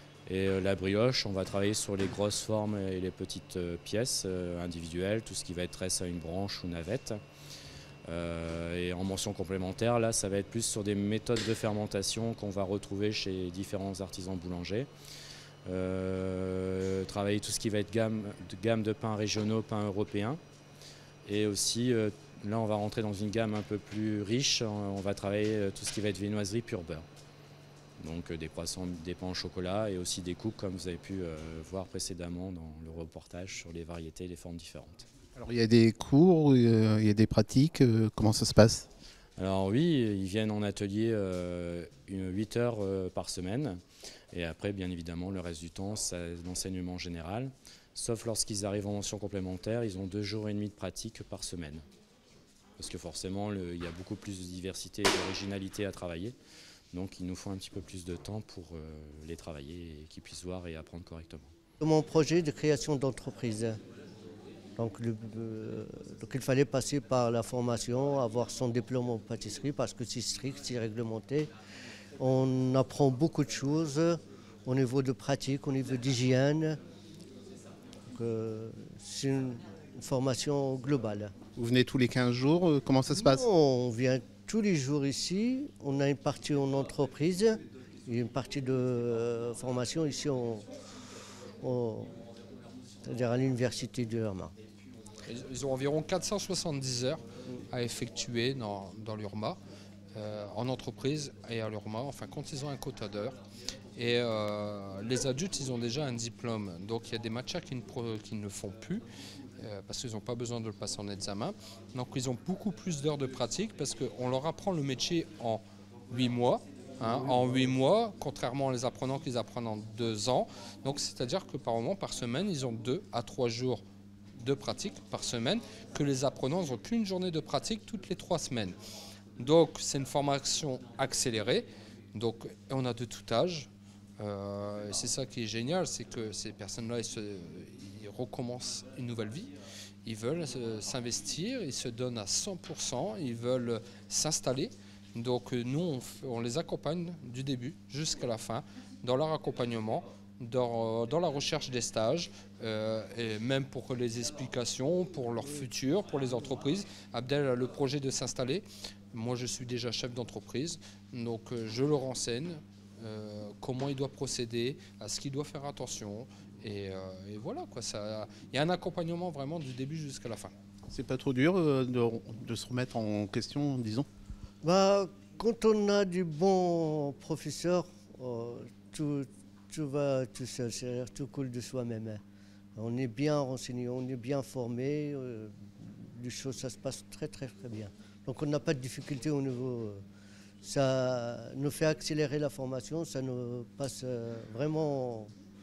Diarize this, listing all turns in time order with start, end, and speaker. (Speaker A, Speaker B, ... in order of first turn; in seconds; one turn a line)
Speaker A: 0.3-7.2
Speaker A: 8.1-14.9
Speaker A: 15.7-20.4
Speaker A: 21.2-27.0
Speaker A: 28.0-35.0
Speaker B: 35.3-38.9
Speaker A: 39.4-43.8
Speaker A: 44.3-51.9
Speaker A: 52.8-56.4
Speaker A: 56.9-61.5
Speaker C: 61.8-63.8
Speaker C: 64.8-71.5
Speaker C: 72.2-76.8
Speaker C: 78.1-81.3
Speaker B: 81.5-83.4
Speaker C: 83.1-90.7
Speaker C: 91.6-92.1
Speaker C: 93.0-94.5
Speaker D: 95.3-99.6
Speaker D: 100.1-103.4
Speaker D: 104.0-109.0
Speaker D: 109.6-123.8
Speaker D: 124.4-128.8
Speaker D: 129.4-133.7
Speaker D: 134.2-139.5
Speaker D: 140.0-170.5
Speaker B: 170.9-174.1
Speaker C: 174.6-182.2
Speaker C: 182.8-190.0
Speaker C: 190.6-195.3